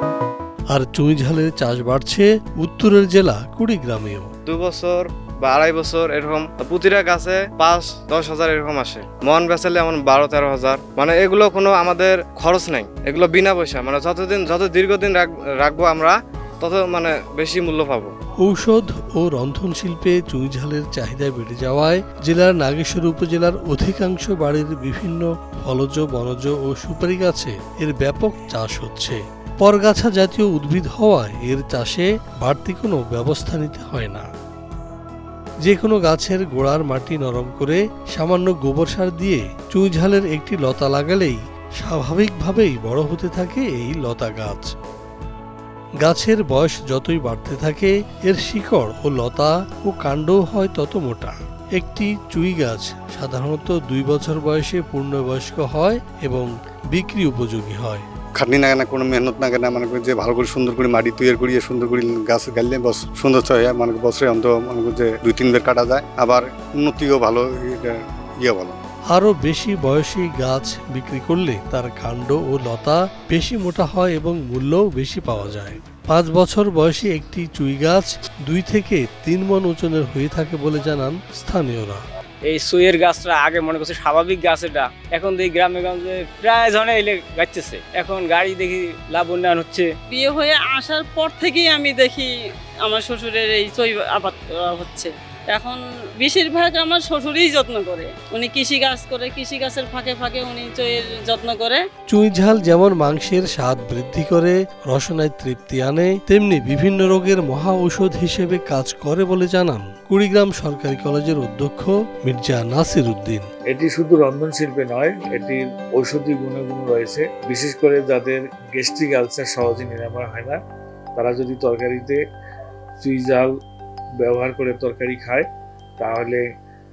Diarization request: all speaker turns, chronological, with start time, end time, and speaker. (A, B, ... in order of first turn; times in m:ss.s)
0:00.7-0:04.3 A
0:04.5-0:18.1 B
0:18.4-0:34.3 A
0:35.6-0:44.7 A
0:46.0-0:58.0 A
0:58.4-1:08.8 C
1:09.1-1:22.0 A
1:22.5-1:30.0 D
1:30.1-1:32.3 E
1:32.8-1:41.8 E
1:42.1-1:53.5 A
1:53.7-2:00.6 F
2:01.2-2:02.2 F
2:03.0-2:03.5 F
2:04.2-2:05.4 F
2:06.0-2:06.4 F